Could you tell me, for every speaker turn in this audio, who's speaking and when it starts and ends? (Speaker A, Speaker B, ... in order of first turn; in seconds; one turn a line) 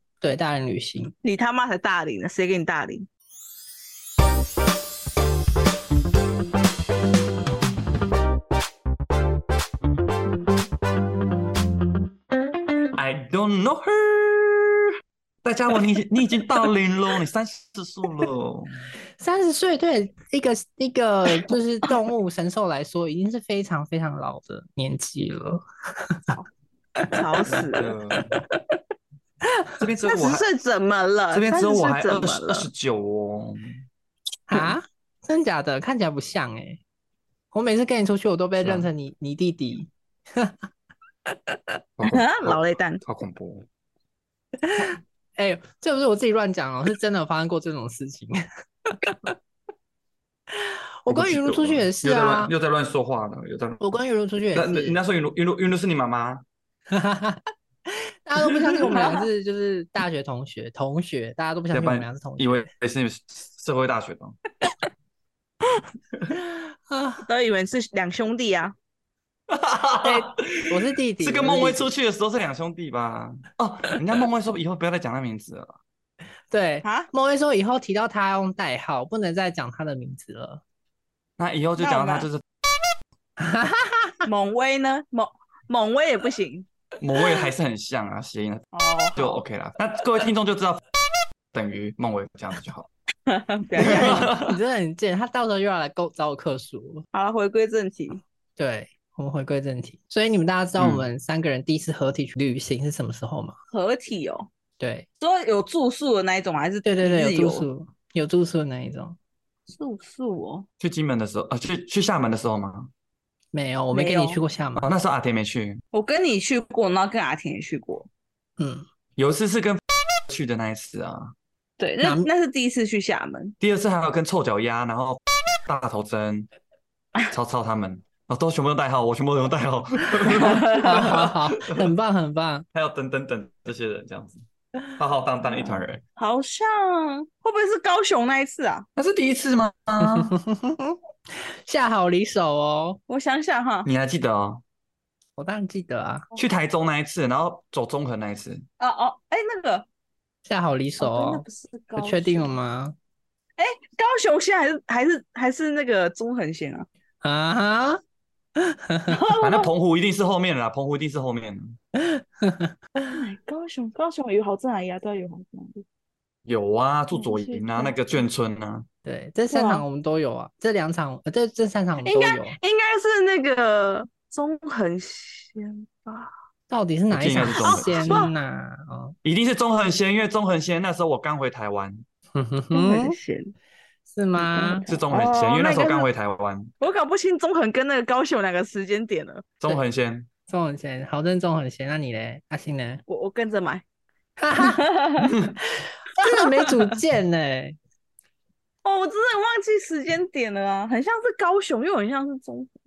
Speaker A: 0.2-1.1
Speaker B: 1.2-3.1
Speaker C: 12.9-14.9
Speaker C: 15.4-18.9
Speaker A: 19.2-26.4
Speaker A: 27.0-27.6
Speaker B: 27.1-27.9
Speaker C: 27.4-28.4
Speaker C: 29.8-30.5
Speaker B: 30.0-32.7
Speaker C: 31.3-33.8
Speaker A: 34.5-36.8
Speaker A: 37.5-40.5
Speaker C: 38.6-38.9
Speaker A: 41.3-41.6
Speaker C: 42.0-43.7
Speaker B: 42.0-43.0
Speaker A: 44.6-49.3
Speaker A: 50.5-52.5
Speaker C: 51.1-53.8
Speaker A: 53.8-55.0
Speaker C: 54.5-56.4
Speaker A: 56.9-62.7
Speaker C: 58.4-58.9
Speaker B: 58.9-59.3
Speaker C: 61.7-64.4
Speaker A: 66.3-67.2
Speaker B: 67.3-68.7
Speaker C: 69.5-75.8
Speaker A: 70.0-71.9
Speaker A: 76.5-80.6
Speaker B: 76.8-77.1
Speaker C: 81.4-82.4
Speaker B: 81.8-82.3
Speaker A: 83.4-84.2
Speaker B: 84.2-86.7
Speaker C: 87.0-90.8
Speaker B: 88.7-89.4
Speaker C: 91.5-92.9
Speaker B: 93.3-94.3
Speaker C: 93.8-94.5
Speaker A: 93.8-97.0
Speaker B: 97.1-98.2
Speaker A: 98.6-103.5
Speaker C: 100.8-101.0
Speaker B: 103.7-104.5
Speaker A: 104.8-105.1
Speaker B: 105.2-107.7
Speaker A: 106.8-109.2
Speaker B: 109.7-110.7
Speaker C: 110.8-112.9
Speaker A: 113.5-114.8
Speaker B: 113.9-114.4
Speaker C: 114.8-115.8
Speaker B: 115.9-118.1
Speaker A: 118.6-118.8
Speaker C: 119.2-121.3
Speaker B: 121.8-123.5
Speaker A: 122.0-122.3
Speaker C: 123.6-126.5
Speaker C: 127.3-131.9
Speaker B: 130.3-131.1
Speaker A: 130.8-132.6
Speaker C: 132.7-134.4
Speaker C: 135.0-136.0
Speaker B: 136.2-138.8
Speaker C: 138.9-140.3
Speaker A: 140.0-140.9
Speaker A: 141.7-143.0
Speaker B: 143.1-143.9
Speaker C: 143.8-144.6
Speaker A: 145.4-146.2
Speaker C: 146.3-148.6
Speaker B: 148.8-149.8
Speaker A: 150.4-151.4
Speaker B: 151.0-152.5
Speaker A: 151.9-152.9
Speaker B: 153.6-156.9
Speaker A: 157.2-158.0
Speaker A: 158.6-159.2
Speaker B: 159.1-159.7
Speaker C: 159.4-161.8
Speaker A: 162.0-163.2
Speaker B: 163.1-165.8
Speaker C: 166.4-168.8
Speaker B: 167.1-168.0
Speaker A: 169.0-172.6
Speaker B: 169.5-169.8
Speaker B: 172.0-176.3
Speaker A: 176.7-179.1
Speaker C: 177.1-178.3
Speaker B: 177.6-178.3
Speaker C: 179.2-182.0
Speaker A: 182.3-183.2
Speaker B: 182.7-183.5
Speaker A: 184.1-184.9
Speaker B: 184.5-186.1
Speaker C: 184.8-186.7
Speaker B: 186.8-189.5
Speaker C: 189.6-190.3
Speaker A: 190.5-193.0
Speaker B: 193.1-193.8
Speaker A: 194.4-194.8
Speaker B: 194.5-195.3
Speaker C: 195.2-195.5
Speaker A: 195.8-197.8
Speaker B: 196.2-196.9
Speaker B: 198.8-202.7